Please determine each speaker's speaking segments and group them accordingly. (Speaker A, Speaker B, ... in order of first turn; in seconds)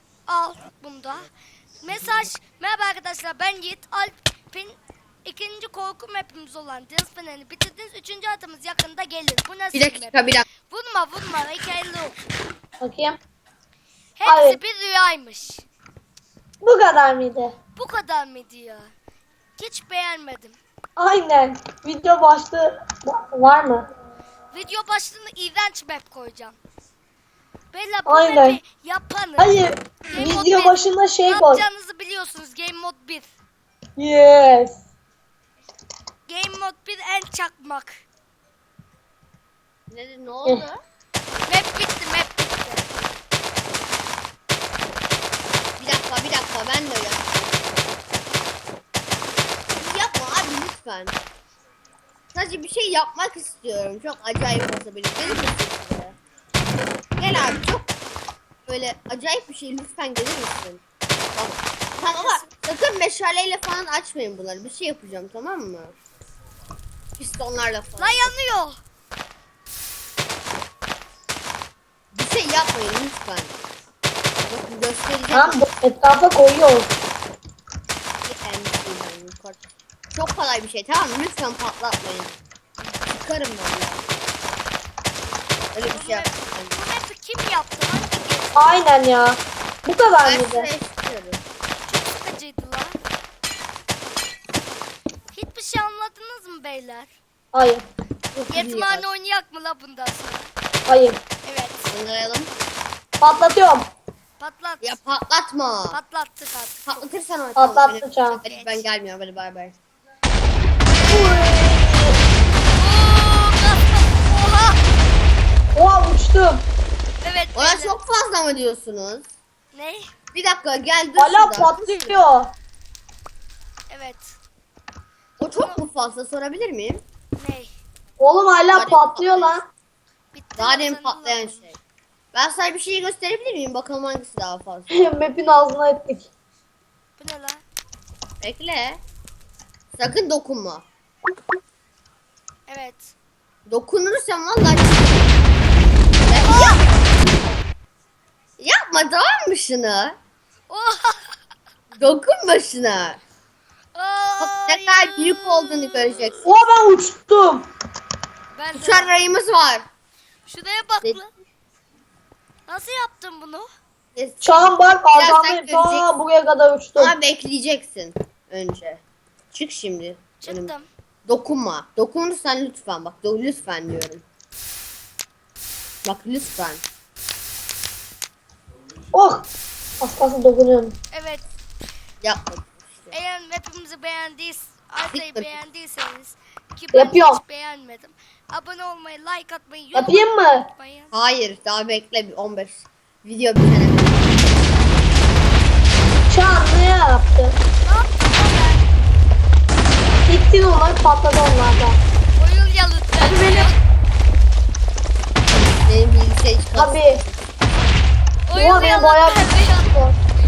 Speaker A: 0.3-1.3, 1.8-12.2, 14.2-15.6, 17.8-18.9, 19.6-20.6, 24.5-26.6, 27.7-33.3, 36.3-38.0, 41.5-43.1, 62.1-62.4, 68.0-68.8, 85.8-88.8, 91.8-93.0, 95.3-97.1, 98.5-100.5, 101.4-101.9, 104.4-105.0, 105.9-107.0, 108.3-108.9, 112.8-114.8, 117.2-118.0, 119.7-120.1, 123.9-124.3, 125.5-125.8, 127.4-127.7, 130.3-131.7, 137.2-137.6, 142.7-143.1, 146.3-146.8, 150.7-151.3, 153.9-156.5, 158.5-159.1, 160.4-161.3, 162.7-163.7, 170.4-170.9, 181.1-181.4, 183.1-191.1, 197.8-199.0, 202.4-203.8, 208.5-210.1
Speaker B: 9.7-10.5, 39.9-40.8, 45.8-47.8, 49.7-51.1, 52.3-56.2, 57.2-57.9, 58.7-60.8, 61.3-65.9, 67.2-68.3, 72.1-73.5, 74.5-75.6, 78.2-79.6, 80.1-84.2, 85.7-86.8, 90.2-91.4, 98.3-99.0, 101.9-102.5, 104.8-106.0, 106.8-109.8, 117.5-119.3, 120.3-122.2, 125.4-127.0, 128.7-129.6, 130.6-131.7, 132.3-135.1, 138.4-139.0, 139.9-140.8, 143.7-145.3, 146.2-146.9, 148.6-150.2, 151.9-153.2, 154.4-156.4, 158.7-159.8, 164.1-166.2, 166.9-169.0, 169.5-170.7, 171.2-174.2, 176.0-176.8, 182.2-183.1, 185.1-185.5, 191.1-194.5, 205.8-207.4
Speaker C: 12.8-13.2, 14.2-14.6, 16.6-17.5, 21.0-23.9, 28.1-28.6, 29.4-31.6, 34.0-34.8, 75.3-76.9, 88.5-90.7, 97.5-97.8, 100.9-101.2, 103.2-103.9, 107.5-108.4, 111.0-112.2, 115.7-116.7, 121.2-122.5, 128.2-129.6, 134.9-136.3, 156.4-157.7, 164.4-167.1, 179.1-179.5, 180.0-180.9, 186.9-187.4, 189.9-190.7, 196.3-197.6, 200.2-202.0, 203.2-203.7, 206.7-207.2, 208.5-210.1